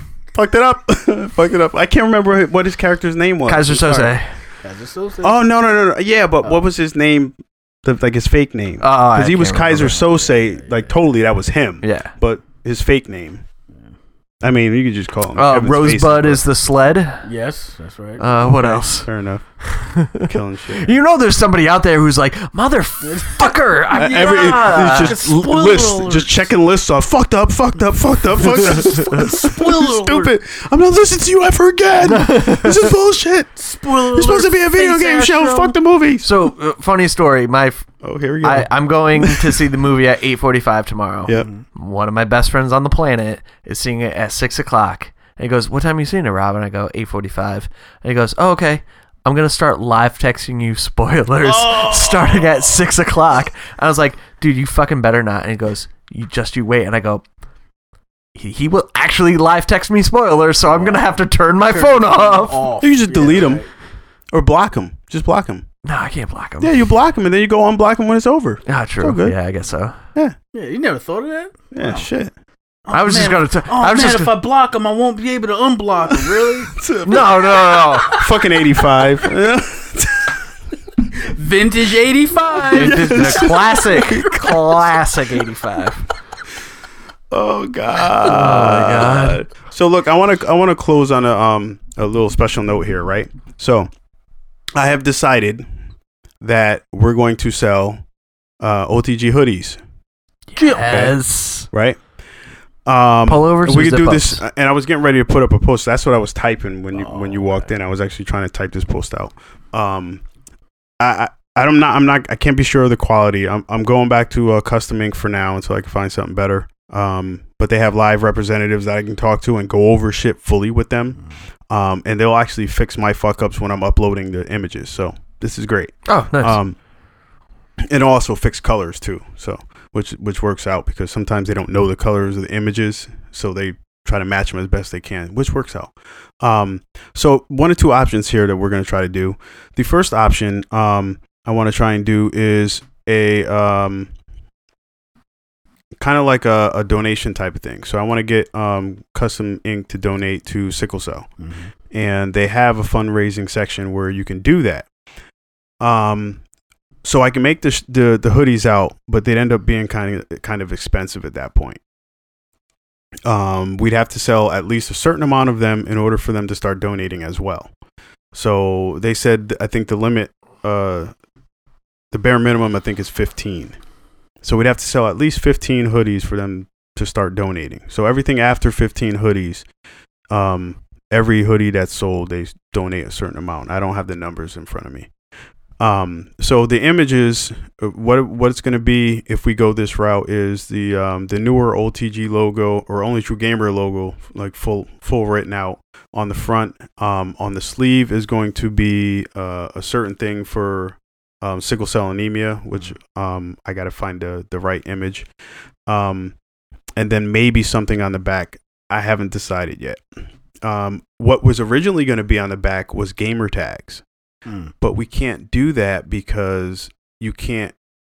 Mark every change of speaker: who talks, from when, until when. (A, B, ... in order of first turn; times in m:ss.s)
0:00.3-0:04.2 A
0:03.4-0:04.3 B
0:04.6-0:05.4 C
0:05.2-0:13.4 A
0:08.8-0:10.0 B
0:10.1-0:10.9 C
0:11.8-0:12.1 B
0:14.4-0:16.4 A
0:15.3-0:17.3 B
0:17.2-0:18.5 C
0:18.2-0:19.1 B
0:18.5-0:20.9 A
0:19.6-0:25.2 B
0:23.0-0:26.5 C
0:23.9-0:36.3 A
0:28.6-0:30.3 C
0:32.0-0:32.7 B
0:33.6-0:35.8 C
0:36.2-0:37.9 B
0:38.0-0:39.6 A
0:38.4-0:57.2 B
0:41.3-0:41.6 C
0:51.4-0:52.8 C
0:58.3-1:02.7 B
1:00.7-1:03.7 C
1:02.8-1:03.6 A
1:04.3-1:05.6 A
1:05.8-1:06.7 B
1:06.6-1:09.4 A
1:08.6-1:10.0 B
1:10.5-1:12.1 C
1:11.7-1:12.3 A
1:12.8-1:16.8 C
1:12.9-1:14.3 B
1:16.1-1:20.4 A
1:17.0-1:18.2 B
1:21.2-1:23.6 C
1:22.6-1:25.0 A
1:22.6-1:26.1 B
1:27.3-1:33.9 A
1:28.2-1:29.4 B
1:34.7-1:35.6 A
1:36.4-1:38.0 A
1:38.6-1:39.8 A
1:40.5-1:41.7 B
1:40.6-1:41.1 C
1:40.9-1:41.2 A
1:41.7-1:42.0 A
1:42.8-1:50.2 A
1:43.2-1:44.4 B
1:46.9-1:47.6 C
1:51.0-2:06.8 A
2:06.0-2:06.6 B
2:07.9-2:24.1 A
2:26.0-2:31.3 A
2:31.4-2:31.7 C
2:31.9-2:34.9 A
2:35.8-2:36.4 A
2:37.0-2:41.8 A
2:43.2-2:47.7 A
2:48.3-2:51.1 A
2:52.1-2:53.8 A
2:54.4-2:59.6 A
3:00.3-3:05.1 A
3:05.8-3:25.3 A
3:25.9-3:26.4 A
3:27.0-3:30.0 A
3:30.6-3:34.0 A
3:34.4-3:34.7 C
3:34.8-3:37.7 A